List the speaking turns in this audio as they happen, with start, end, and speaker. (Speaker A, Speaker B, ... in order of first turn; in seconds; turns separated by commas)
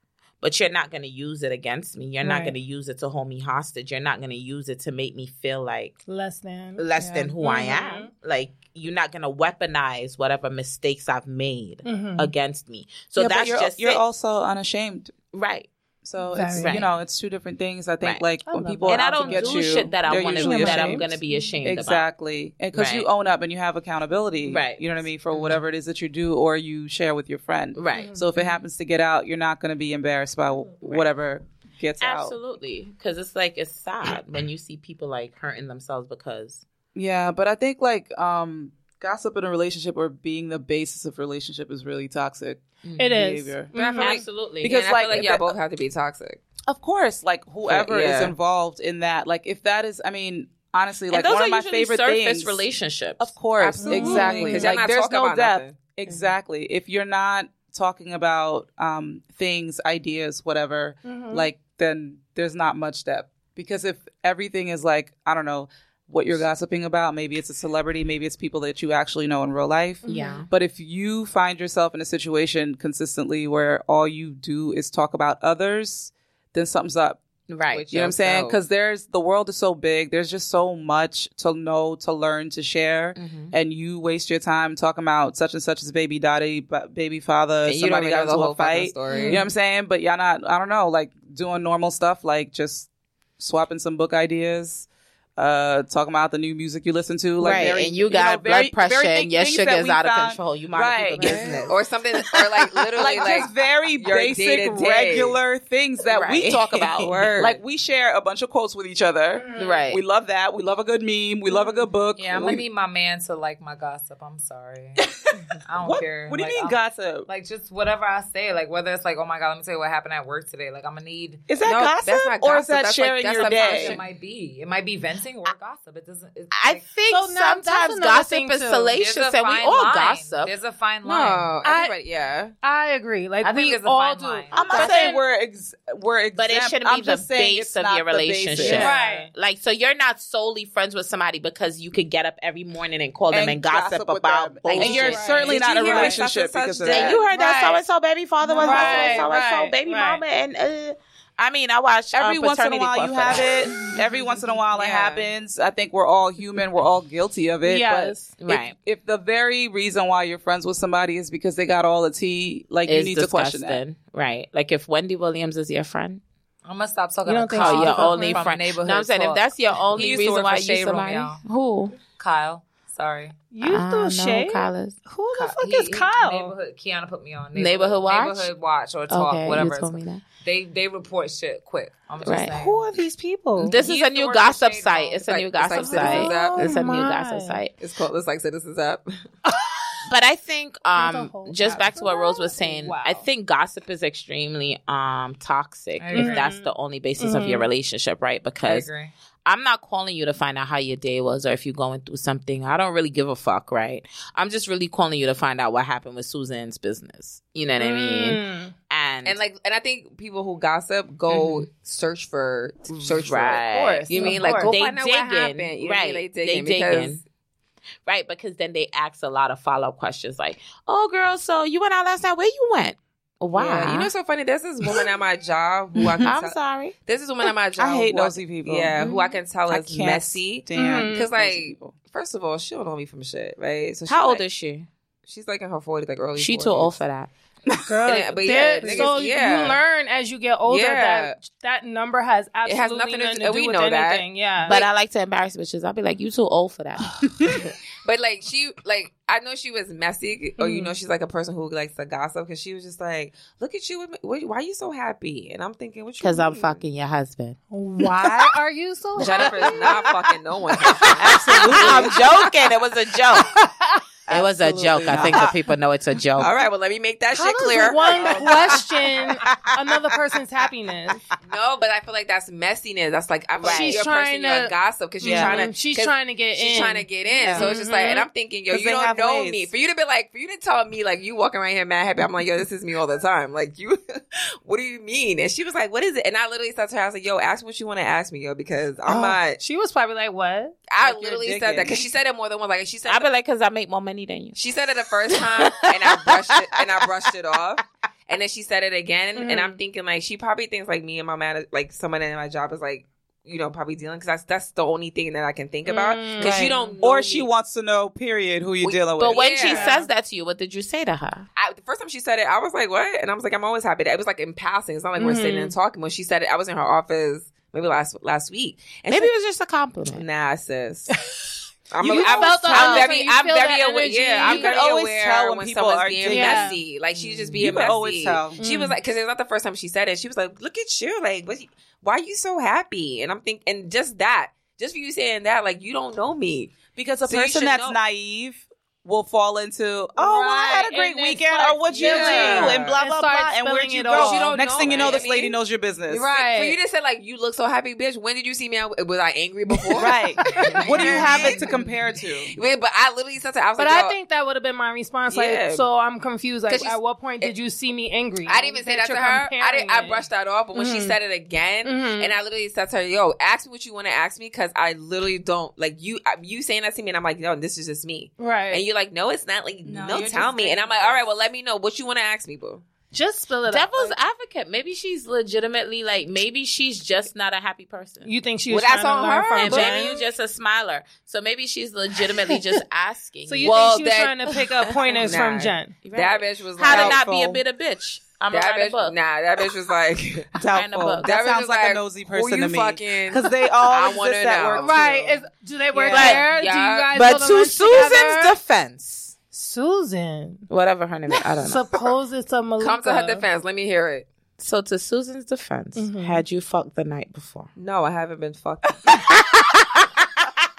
Speaker A: 0.4-6.0, Speaker B: 2.2-2.5, Speaker B: 6.0-8.1, Speaker A: 6.8-14.0, Speaker B: 11.8-12.3, Speaker C: 13.2-15.1, Speaker A: 15.3-15.7, Speaker C: 16.0-32.4, Speaker B: 16.3-16.9, Speaker A: 16.5-16.9, Speaker B: 18.4-21.5, Speaker A: 18.8-22.0, Speaker A: 22.7-23.1, Speaker A: 24.4-25.6, Speaker A: 27.7-28.5, Speaker B: 27.9-28.3, Speaker A: 32.0-36.6, Speaker C: 36.9-43.7, Speaker A: 42.8-43.2, Speaker B: 43.0-44.2, Speaker D: 43.7-46.4, Speaker A: 44.0-44.8, Speaker C: 44.6-45.5, Speaker C: 46.7-52.6, Speaker D: 47.6-48.3, Speaker A: 51.1-54.4, Speaker C: 53.2-77.2, Speaker D: 53.6-55.8, Speaker B: 53.8-54.7, Speaker A: 56.1-56.3, Speaker B: 61.0-61.5, Speaker B: 70.0-70.4, Speaker A: 70.1-70.5, Speaker A: 77.5-77.8, Speaker D: 77.7-78.6, Speaker C: 77.9-101.8, Speaker A: 83.1-83.5, Speaker D: 87.6-89.5, Speaker B: 89.1-89.5, Speaker A: 97.4-101.7, Speaker D: 101.2-105.4, Speaker A: 102.9-103.4, Speaker C: 103.0-112.6, Speaker A: 106.0-107.3, Speaker D: 107.0-107.6, Speaker B: 109.3-109.8, Speaker A: 109.5-110.0, Speaker E: 112.2-115.1, Speaker E: 115.6-121.4, Speaker C: 115.8-117.3, Speaker C: 121.5-124.0, Speaker D: 121.6-124.0, Speaker E: 123.4-126.8, Speaker A: 126.5-130.5, Speaker B: 127.1-128.9, Speaker E: 129.0-131.5, Speaker D: 131.0-132.5, Speaker B: 131.6-131.9, Speaker B: 132.6-135.2, Speaker E: 133.4-134.6, Speaker C: 134.5-138.9, Speaker A: 134.5-135.2, Speaker A: 136.3-145.3, Speaker D: 138.6-138.9, Speaker B: 138.6-139.3, Speaker C: 143.3-147.2, Speaker D: 144.7-147.2, Speaker B: 144.8-146.2, Speaker A: 145.8-146.2, Speaker A: 146.8-153.9, Speaker B: 147.3-147.8, Speaker B: 148.4-150.2, Speaker C: 148.5-149.4, Speaker C: 152.1-163.8, Speaker B: 154.1-154.5, Speaker D: 154.7-155.1, Speaker B: 157.6-158.3, Speaker A: 158.4-158.7, Speaker A: 162.8-166.2, Speaker E: 166.6-171.4, Speaker B: 167.2-168.5, Speaker A: 167.5-171.9, Speaker E: 172.1-173.4, Speaker B: 173.5-176.5, Speaker A: 173.6-174.9, Speaker E: 175.3-182.8, Speaker A: 177.5-178.5, Speaker A: 179.1-180.2, Speaker A: 182.2-182.6, Speaker B: 182.5-183.8, Speaker A: 183.6-187.7, Speaker E: 183.6-185.6, Speaker D: 185.3-186.9, Speaker B: 185.8-187.6, Speaker D: 187.8-189.3, Speaker B: 189.4-190.0, Speaker A: 190.1-198.9, Speaker B: 190.9-193.2, Speaker E: 196.0-196.4, Speaker B: 196.1-197.7, Speaker E: 198.6-199.1, Speaker A: 199.4-209.4, Speaker B: 207.8-208.7, Speaker D: 209.2-217.2, Speaker A: 211.3-211.7, Speaker A: 212.9-217.2, Speaker E: 213.7-214.7, Speaker A: 218.1-224.1, Speaker D: 223.5-234.4, Speaker A: 226.2-226.9, Speaker C: 227.8-229.0, Speaker A: 229.0-229.4, Speaker C: 229.7-231.9, Speaker B: 230.7-231.3, Speaker A: 234.1-234.9, Speaker D: 235.2-237.0, Speaker A: 236.3-237.3, Speaker C: 237.7-238.0, Speaker B: 237.8-244.8, Speaker D: 238.0-239.8, Speaker C: 238.8-239.1, Speaker D: 240.7-241.4, Speaker D: 242.6-244.2, Speaker A: 244.7-247.6, Speaker D: 247.5-256.8, Speaker B: 250.6-250.9, Speaker A: 256.2-257.6, Speaker B: 257.7-260.2, Speaker D: 259.1-262.4, Speaker A: 259.3-259.8, Speaker B: 260.8-262.2, Speaker A: 261.2-263.6, Speaker C: 261.4-262.1, Speaker B: 263.4-265.4, Speaker A: 264.3-266.5, Speaker C: 264.3-265.6, Speaker D: 265.1-265.5, Speaker D: 266.4-269.1, Speaker B: 267.3-271.2, Speaker A: 268.2-268.8, Speaker D: 271.4-289.6, Speaker A: 273.6-274.0, Speaker B: 273.6-278.3, Speaker A: 275.2-275.7, Speaker C: 278.7-279.7, Speaker B: 289.0-290.8, Speaker D: 290.9-293.3, Speaker C: 291.0-292.1, Speaker A: 293.1-294.6, Speaker D: 294.5-307.5, Speaker A: 295.4-296.3, Speaker B: 299.4-299.8, Speaker B: 305.9-306.9, Speaker A: 306.4-306.9, Speaker C: 307.0-309.5, Speaker D: 308.8-310.0, Speaker A: 309.2-311.4, Speaker B: 309.6-310.1, Speaker D: 311.6-319.3, Speaker B: 315.2-315.7, Speaker A: 319.1-320.2, Speaker D: 320.1-321.1, Speaker D: 321.9-338.0, Speaker C: 322.0-323.0, Speaker B: 322.0-324.7, Speaker A: 322.1-324.6, Speaker C: 324.4-326.8, Speaker B: 326.2-326.8, Speaker C: 327.6-328.6, Speaker B: 328.6-329.0, Speaker C: 336.9-346.3, Speaker B: 340.2-345.1, Speaker D: 341.9-343.0, Speaker D: 344.1-345.6, Speaker D: 346.1-354.2, Speaker B: 346.1-346.8, Speaker B: 349.7-351.7, Speaker C: 350.0-352.5, Speaker B: 353.8-361.2, Speaker D: 355.3-355.9, Speaker D: 356.7-357.5, Speaker D: 358.4-372.8, Speaker B: 361.8-362.4, Speaker B: 368.4-368.8, Speaker C: 369.8-371.2, Speaker B: 373.1-374.2, Speaker A: 373.7-378.3, Speaker B: 378.2-380.2, Speaker D: 378.7-380.2, Speaker A: 379.5-384.0, Speaker B: 382.3-382.6, Speaker B: 383.4-386.0, Speaker D: 383.6-384.5, Speaker A: 384.8-385.3, Speaker D: 385.2-387.2, Speaker A: 386.0-389.2, Speaker C: 386.8-387.6, Speaker D: 388.5-390.5, Speaker C: 390.5-395.1, Speaker A: 390.7-391.3, Speaker D: 391.2-395.4, Speaker B: 394.7-398.6, Speaker D: 395.9-397.2, Speaker A: 396.1-396.5, Speaker A: 397.1-399.3, Speaker B: 399.5-400.7, Speaker A: 400.7-401.9, Speaker B: 401.6-403.4, Speaker D: 402.8-404.3, Speaker A: 404.6-407.7, Speaker B: 405.9-406.4, Speaker D: 407.8-409.3, Speaker A: 409.1-410.0